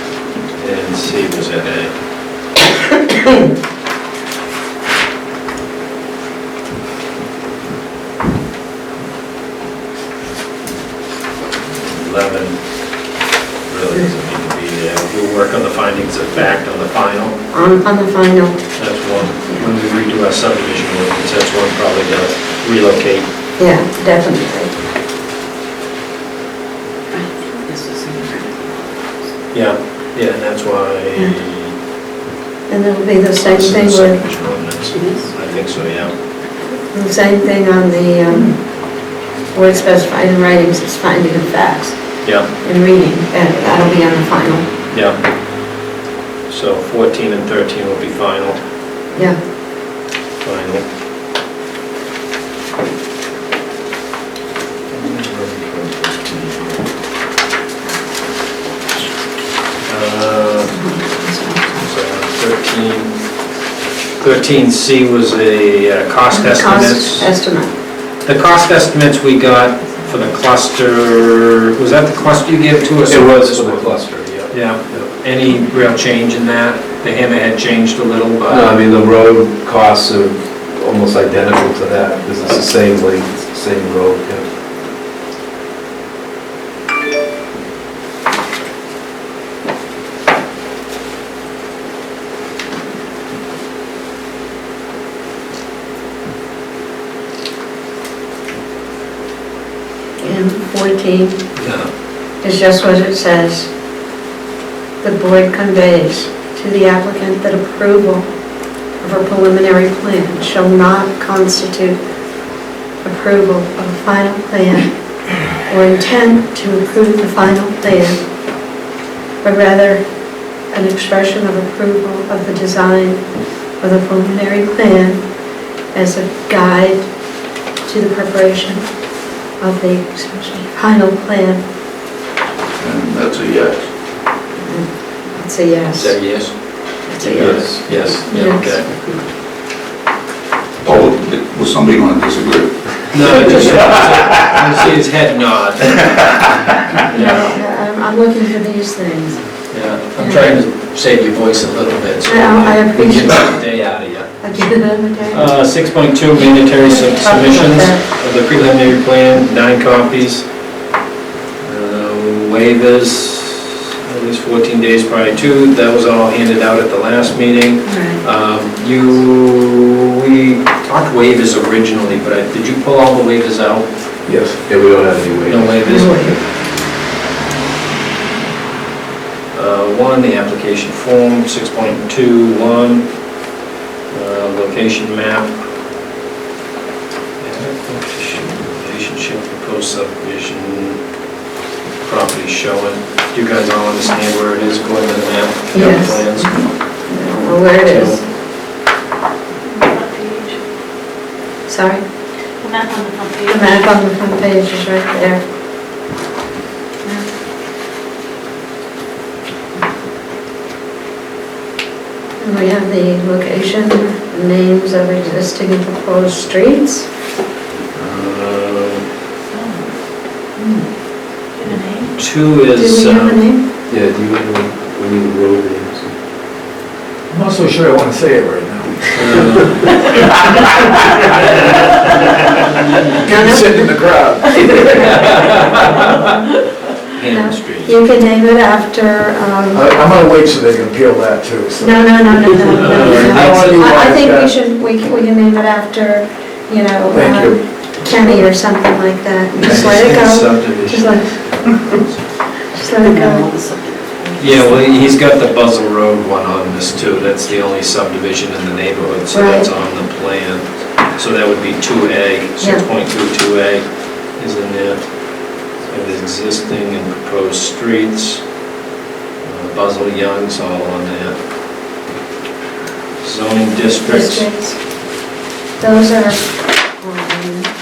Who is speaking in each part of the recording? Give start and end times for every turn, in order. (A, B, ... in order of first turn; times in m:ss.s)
0:00.6-0:01.9 A
0:11.9-0:12.6 A
0:13.7-0:17.4 A
0:17.5-0:18.6 B
0:18.8-0:23.3 A
0:19.4-0:19.7 B
0:23.6-0:24.7 B
0:27.1-0:28.8 C
0:29.5-0:31.7 A
0:32.7-0:34.2 B
0:33.4-0:36.2 A
0:34.9-0:35.3 C
0:36.9-0:38.6 B
0:39.5-0:42.0 B
0:42.6-0:44.7 B
0:44.9-0:45.2 A
0:46.5-0:48.6 A
0:49.1-0:49.4 B
0:50.4-0:50.8 A
0:54.9-0:56.8 D
0:59.9-1:00.8 A
1:00.9-1:01.5 B
1:01.8-1:03.1 A
1:04.2-1:07.3 A
1:06.3-1:07.7 B
1:08.2-1:14.0 A
1:13.1-1:15.1 E
1:14.5-1:18.8 A
1:18.5-1:24.5 E
1:40.2-1:41.4 B
1:41.6-1:41.9 A
1:42.4-1:43.7 B
1:45.0-1:48.3 B
1:49.0-1:52.0 B
1:53.0-1:54.9 B
1:55.6-1:58.2 B
1:59.4-2:00.0 B
2:00.7-2:03.2 B
2:03.8-2:05.2 B
2:05.9-2:07.0 B
2:07.8-2:08.8 B
2:09.6-2:11.6 B
2:12.8-2:13.9 F
2:14.6-2:16.2 B
2:16.0-2:19.0 A
2:17.1-2:18.7 B
2:17.3-2:18.2 E
2:20.8-2:24.6 F
2:23.1-2:26.5 A
2:27.1-2:27.6 A
2:27.1-2:29.4 B
2:29.7-2:34.3 A
2:30.2-2:30.5 B
2:32.3-2:33.6 B
2:34.4-2:35.5 B
2:35.3-2:40.5 A
2:36.4-2:38.0 B
2:41.6-2:53.9 A
2:47.9-2:48.2 C
2:54.3-2:54.6 D
2:54.6-2:55.8 E
2:55.5-2:56.4 A
2:55.8-2:56.4 B
2:59.5-3:03.1 A
3:04.1-3:05.5 A
3:07.4-3:11.0 A
3:12.0-3:16.6 A
3:15.7-3:16.6 B
3:17.1-3:18.2 B
3:17.8-3:18.2 A
3:19.7-3:20.6 C
3:21.7-3:22.0 B
3:22.6-3:23.6 C
3:23.5-3:25.4 B
3:32.4-3:37.1 B
3:38.0-3:39.0 A
3:39.5-3:39.8 C
3:41.6-3:42.1 C
3:42.2-3:43.4 A
3:42.7-3:43.6 B
3:43.9-3:46.1 E
3:47.3-3:52.3 D
3:49.1-3:50.2 A
3:53.2-3:53.9 B
3:53.2-3:56.0 D
3:54.8-3:56.3 A
3:57.1-3:57.9 A
3:57.3-3:59.9 B
3:59.7-4:04.5 D
4:01.8-4:11.3 B
4:02.7-4:03.4 A
4:07.1-4:08.5 D
4:09.6-4:10.0 D
4:09.6-4:12.2 A
4:12.7-4:13.5 B
4:13.0-4:15.2 C
4:14.4-4:28.4 A
4:19.3-4:19.7 B
4:22.6-4:22.8 B
4:29.4-4:31.4 A
4:33.2-4:34.4 A
4:34.0-4:34.8 B
4:35.8-4:36.5 B
4:37.0-4:37.7 B